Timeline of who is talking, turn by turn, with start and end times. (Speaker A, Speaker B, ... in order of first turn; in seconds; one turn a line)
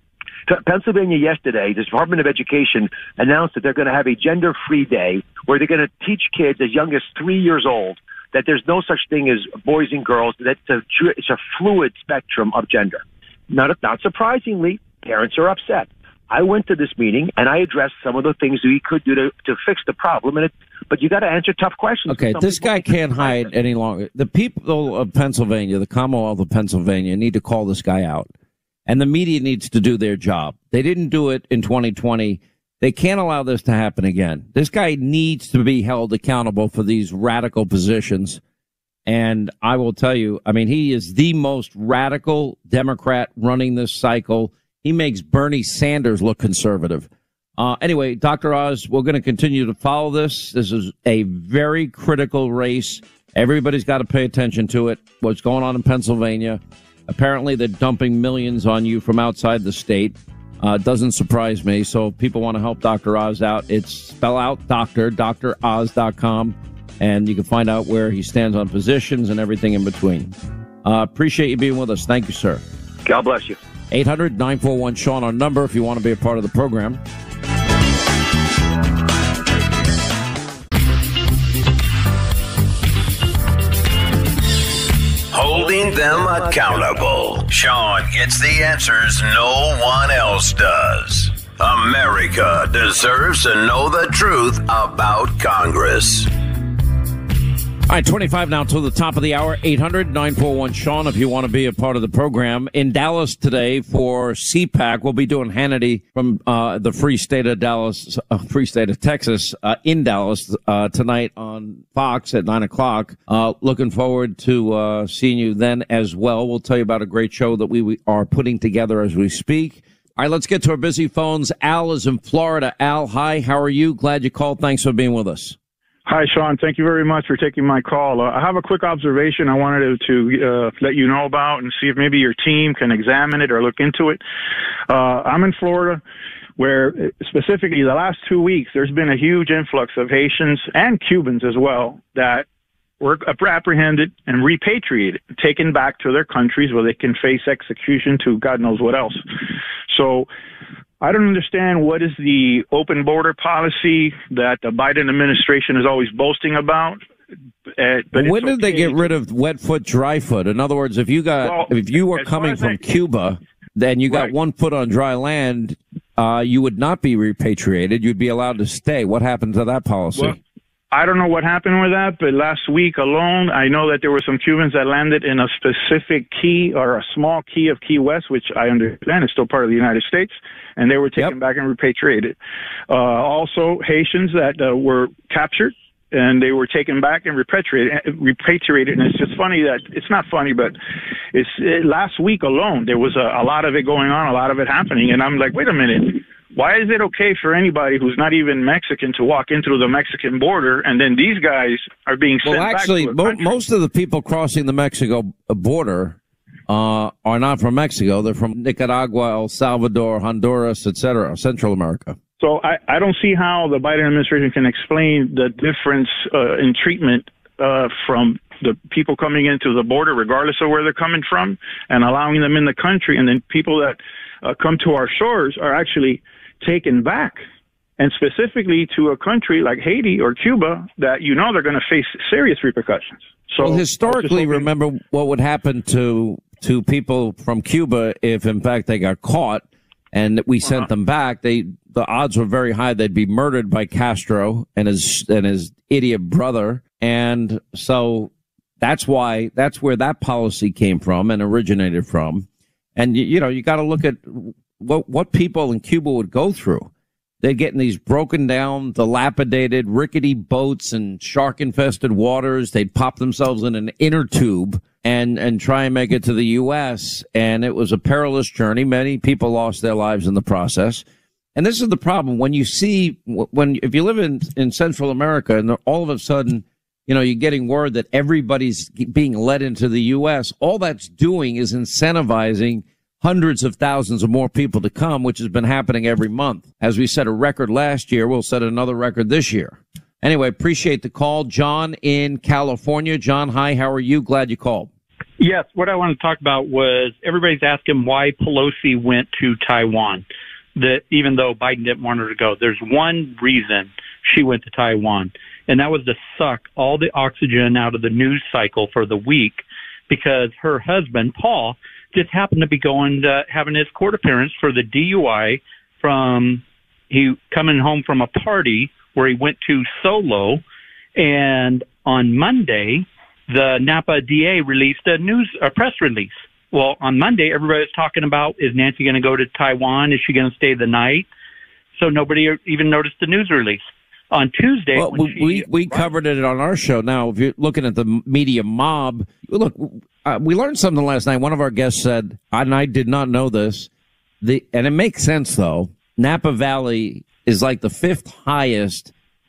Speaker A: 0.5-23.5
Speaker B: 22.1-28.3
Speaker B: 28.9-38.4
Speaker B: 39.0-72.6
Speaker A: 73.0-73.6
Speaker B: 73.9-77.0
Speaker C: 85.3-96.3
Speaker B: 97.9-125.6
Speaker D: 126.0-134.2
Speaker D: 134.9-136.0
Speaker D: 136.6-142.4
Speaker D: 143.0-149.2
Speaker D: 149.9-150.3
Speaker D: 151.0-157.0
Speaker D: 157.8-159.1
Speaker B: 158.1-170.4
Speaker D: 161.4-162.8
Speaker D: 170.9-182.3
Speaker D: 182.9-190.7
Speaker D: 191.3-203.5
Speaker B: 202.4-206.2
Speaker B: 206.7-212.2
Speaker D: 212.4-227.4
Speaker D: 228.0-234.7
Speaker B: 233.6-256.9
Speaker B: 257.4-271.0
Speaker B: 271.5-294.9
Speaker E: 295.4-300.2
Speaker E: 300.8-320.6
Speaker E: 321.1-331.3
Speaker E: 331.9-336.1
Speaker B: 334.9-343.9
Speaker B: 344.4-349.1